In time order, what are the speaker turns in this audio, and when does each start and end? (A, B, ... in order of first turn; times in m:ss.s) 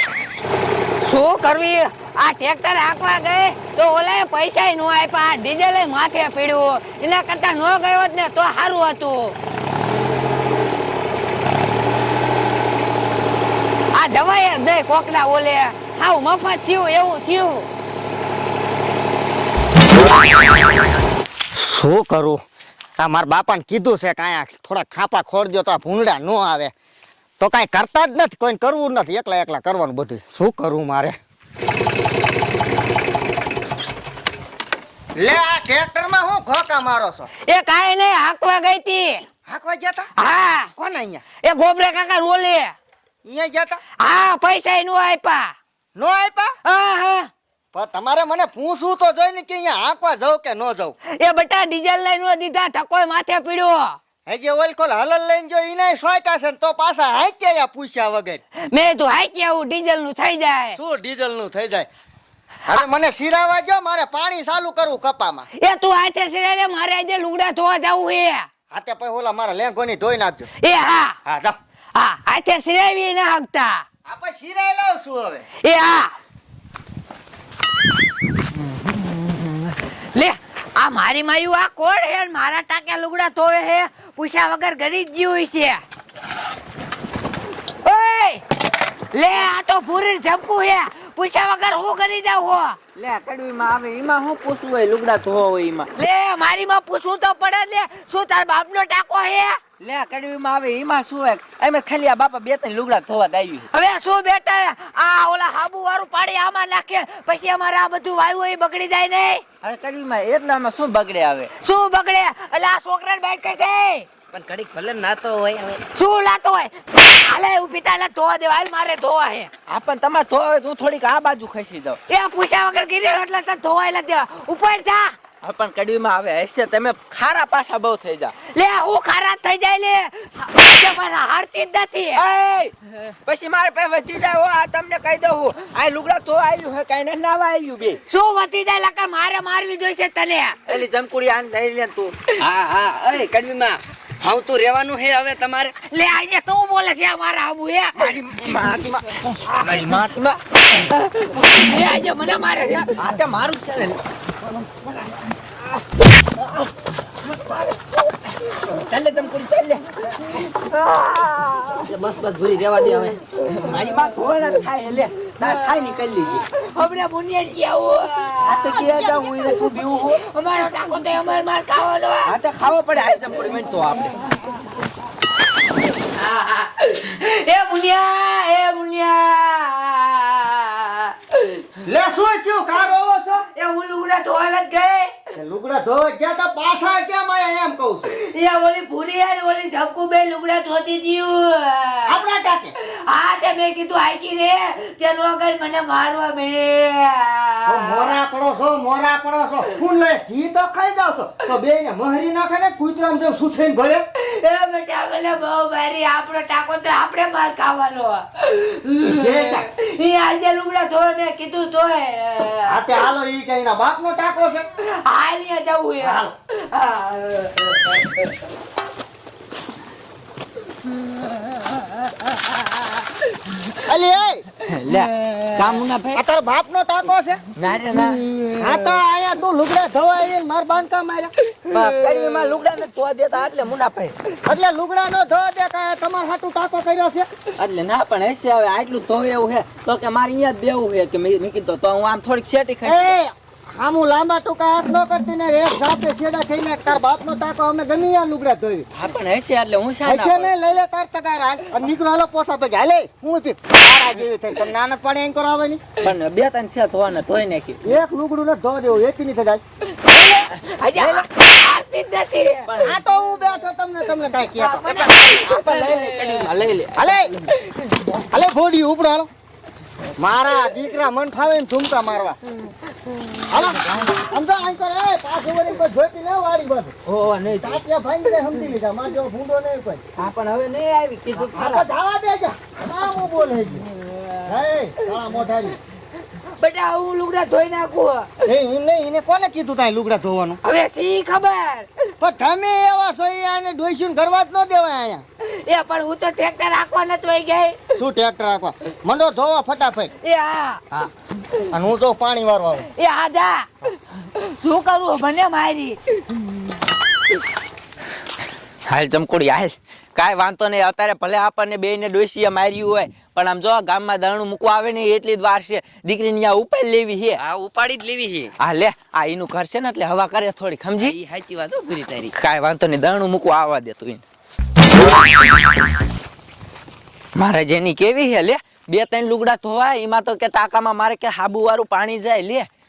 0:01.0-0:09.4 A
0:13.9-0:17.7 A
0:21.5-0:22.4 B
0:23.0-0:26.7 B
0:27.4-0:31.2 B
0:35.2-0:37.3 B
0:37.5-0:39.2 A
0:39.5-0:40.1 B
0:40.2-0:40.7 A
0:40.8-0:41.2 B
0:41.4-0:42.7 A
0:43.2-0:43.8 B
0:44.0-0:45.5 A
0:46.0-0:46.5 B
0:46.6-0:47.3 A
0:47.7-0:51.0 B
0:51.2-0:54.0 A
0:54.3-0:58.4 B
0:58.7-1:00.8 A
1:00.8-1:01.9 B
1:02.7-1:05.5 B
1:05.6-1:08.5 A
1:08.7-1:10.5 B
1:10.6-1:11.2 A
1:11.2-1:11.6 B
1:12.0-1:13.8 A
1:14.1-1:15.5 B
1:15.6-1:16.1 A
1:20.2-1:25.8 A
1:27.8-1:28.4 A
1:29.1-1:32.8 A
1:33.0-1:35.9 C
1:36.0-1:39.6 A
1:39.8-1:43.7 C
1:43.7-1:49.4 A
1:49.6-1:51.5 C
1:51.6-1:54.1 A
1:54.3-1:55.8 D
1:55.9-1:59.5 A
1:59.7-2:02.0 C
2:02.1-2:05.2 A
2:05.4-2:08.4 C
2:08.5-2:12.2 A
2:12.2-2:18.0 C
2:18.1-2:20.6 A
2:20.7-2:22.1 C
2:22.4-2:25.7 D
2:25.9-2:28.2 A
2:28.0-2:30.4 C
2:30.8-2:33.1 A
2:33.0-2:34.0 C
2:37.3-2:37.8 C
2:38.6-2:41.9 C
2:41.8-2:43.2 D
2:43.5-2:46.4 C
2:45.4-2:52.4 A
2:48.4-2:50.2 C
2:52.2-2:54.2 C
2:56.1-3:01.6 A
3:01.9-3:03.4 B
3:03.6-3:05.2 A
3:05.4-3:08.1 B
3:08.1-3:12.2 A
3:12.1-3:12.7 B
3:12.8-3:18.2 A
3:17.7-3:24.0 B
3:24.2-3:32.9 A
3:29.0-3:29.7 B
3:32.7-3:34.7 B
3:34.8-3:38.3 A
3:36.0-3:36.3 B
3:43.8-3:44.5 B
3:44.6-3:46.2 C
3:46.2-3:47.4 B
3:47.6-3:48.2 C
3:47.9-3:48.6 A
3:48.6-3:51.3 B
3:51.7-3:54.2 C
3:51.7-3:52.5 A
3:54.5-3:57.3 B
3:57.6-4:03.2 C
4:02.8-4:08.8 B
4:08.9-4:10.5 C
4:10.0-4:15.8 B
4:16.0-4:17.8 C
4:17.8-4:19.6 B
4:19.9-4:22.7 A
4:21.0-4:21.2 C
4:22.7-4:23.0 C
4:22.8-4:25.1 B
4:24.6-4:26.5 A
4:25.1-4:27.1 C
4:27.0-4:27.3 B
4:28.3-4:29.3 B
4:30.2-4:32.4 B
4:33.4-4:34.2 C
4:33.5-4:36.9 B
4:37.1-4:37.8 C
4:37.6-4:40.0 B
4:40.2-4:41.9 C
4:41.4-4:43.9 B
4:44.5-4:45.8 B
4:46.6-4:48.3 A
4:48.4-4:50.6 B
4:50.6-4:52.0 A
4:52.2-4:55.2 B
4:55.4-4:57.8 A
4:57.9-5:00.1 B
5:00.2-5:00.9 A
5:01.7-5:02.9 B
5:02.9-5:06.2 A
5:08.9-5:17.4 C
5:17.4-5:18.5 D
5:18.6-5:21.2 C
5:21.0-5:22.3 D
5:22.3-5:24.2 C
5:27.4-5:32.7 C